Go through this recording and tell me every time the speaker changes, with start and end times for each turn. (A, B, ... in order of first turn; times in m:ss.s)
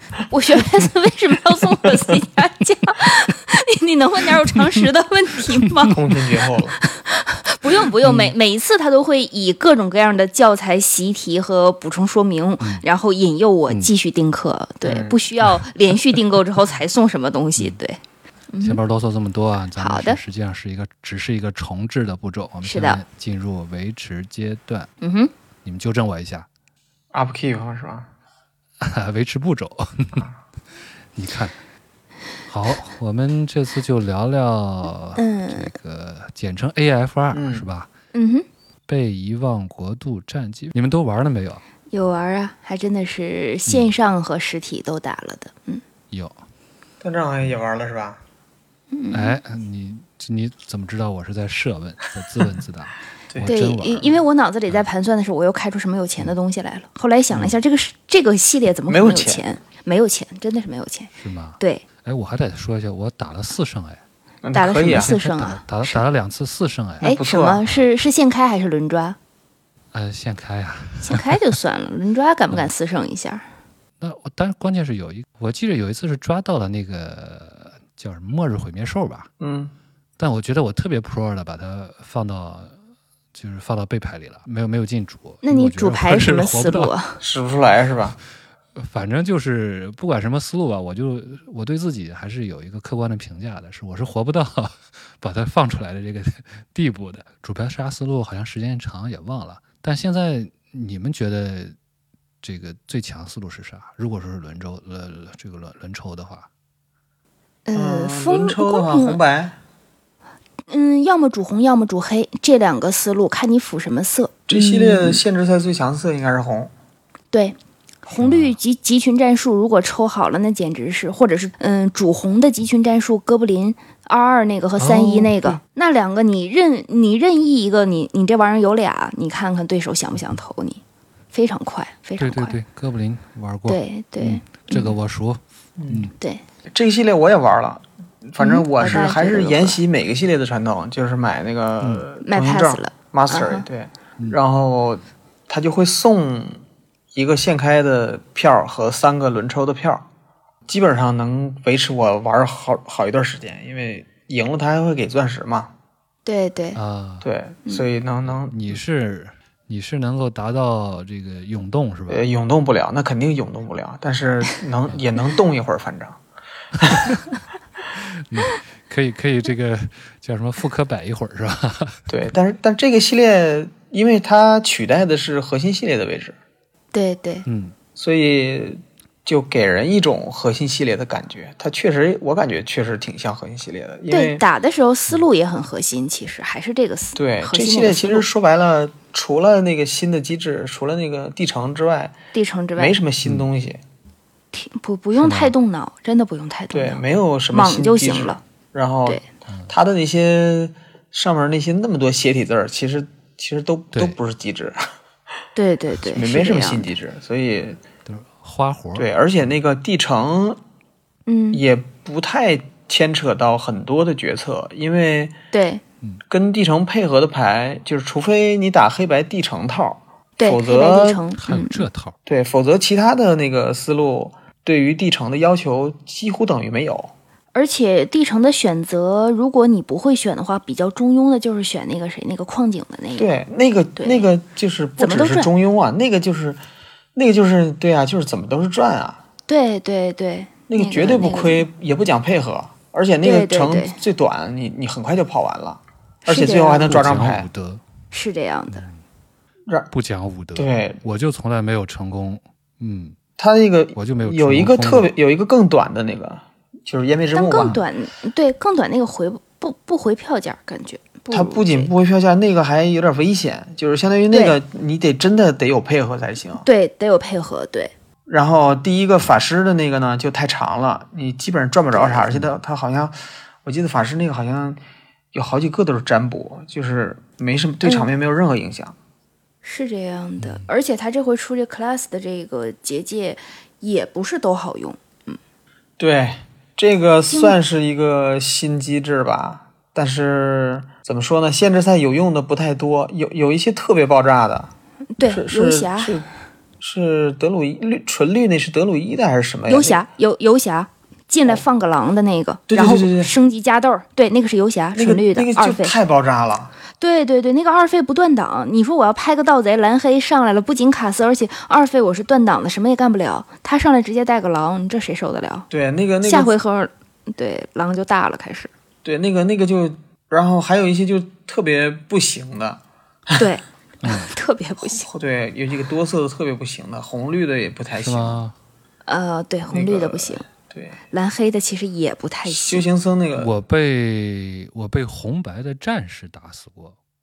0:00.3-0:06.0 A
0:05.9-0:06.8 B
0:06.8-0:18.0 A
0:08.0-0:08.3 B
0:14.8-0:15.2 B
0:18.5-0:18.8 A
0:18.6-0:24.9 C
0:19.8-0:20.2 A
0:22.6-0:23.0 A
0:25.0-0:25.3 A
0:25.6-0:26.5 C
0:27.1-0:28.1 B
0:28.8-0:30.3 C
0:31.2-0:31.6 C
0:32.5-0:37.9 C
0:35.2-0:35.7 A
0:37.3-0:37.7 B
0:38.1-0:38.5 A
0:38.9-0:41.6 C
0:41.9-0:45.8 A
0:47.0-0:48.2 B
0:48.9-0:49.4 A
0:49.1-0:54.8 C
0:53.4-1:01.8 A
0:57.3-0:57.6 C
0:58.9-0:59.4 B
1:01.2-1:04.0 C
1:04.4-1:05.1 B
1:04.5-1:06.0 A
1:04.9-1:07.1 C
1:07.0-1:09.2 A
1:07.0-1:07.6 B
1:09.9-1:11.3 C
1:11.0-1:13.4 A
1:14.0-1:19.3 C
1:19.4-1:19.7 B
1:20.2-1:22.8 C
1:23.3-1:26.9 C
1:25.4-1:27.2 A
1:27.2-1:28.2 B
1:28.8-1:41.8 C
1:42.4-1:46.5 C
1:47.7-1:49.2 A
1:47.7-1:49.6 B
1:50.7-1:55.0 A
1:54.5-1:56.7 B
1:58.1-2:10.8 A
1:58.1-1:58.6 C
2:04.8-2:05.6 C
2:11.3-2:12.6 A
2:12.2-2:16.1 C
2:13.7-2:14.9 A
2:15.8-2:16.1 B
2:16.7-2:26.6 B
2:18.4-2:19.8 A
2:22.2-2:23.7 A
2:27.1-2:30.0 B
2:30.7-2:35.7 B
2:36.2-2:36.8 A
2:36.8-2:37.3 C
2:37.2-2:38.8 B
2:38.3-2:42.3 C
2:42.1-2:46.2 B
2:47.9-2:52.0 C
2:52.1-2:56.4 B
2:56.9-2:57.5 A
2:57.5-2:57.8 C
2:58.0-3:04.4 B
3:04.1-3:08.3 A
3:07.2-3:12.2 B
3:12.3-3:13.0 A
3:12.8-3:13.8 B
3:14.5-3:17.0 A
3:15.2-3:15.5 C
3:16.7-3:24.8 B
3:17.5-3:18.4 A
3:19.5-3:19.7 C
3:25.6-3:26.9 A
3:26.0-3:27.8 B
3:28.1-3:29.1 C
3:29.0-3:30.6 B
3:31.3-3:31.6 A
3:31.5-3:35.4 B
3:35.5-3:35.8 A
3:36.3-3:41.2 B
3:40.4-3:41.8 A
3:41.4-3:42.2 C
3:42.3-3:47.1 B
3:47.5-3:53.3 A
3:53.2-3:56.6 B
3:54.0-3:54.3 A
3:55.0-3:55.5 A
3:57.2-3:59.2 B
3:59.5-4:01.7 A
4:00.7-4:07.5 B
4:03.2-4:04.0 A
4:06.3-4:06.9 A
4:06.8-4:07.8 C
4:08.1-4:08.8 A
4:08.7-4:09.0 C
4:09.9-4:13.2 C
4:10.6-4:11.0 B
4:13.4-4:17.8 B
4:14.0-4:15.1 C
4:17.3-4:21.9 A
4:17.6-4:17.8 C
4:21.3-4:26.7 B
4:26.6-4:27.9 A
4:28.3-4:34.8 B
4:31.9-4:32.3 A
4:35.3-4:39.0 B
4:37.8-4:38.1 A
4:39.6-4:45.4 A
4:46.0-4:54.7 B
4:47.3-4:47.6 A
4:55.2-4:56.2 A
4:55.2-4:56.3 B
4:56.8-5:00.1 B
4:59.7-5:06.0 A
5:02.7-5:03.3 B
5:05.0-5:06.7 B
5:07.0-5:15.7 A
5:15.7-5:16.5 B
5:16.2-5:18.7 A
5:19.0-5:22.8 B
5:23.4-5:25.1 A
5:24.0-5:24.3 C
5:24.8-5:28.4 B
5:28.0-5:28.6 C
5:29.1-5:30.4 A
5:29.7-5:31.0 B
5:31.1-5:32.9 A
5:32.4-5:33.5 B
5:33.4-5:37.0 C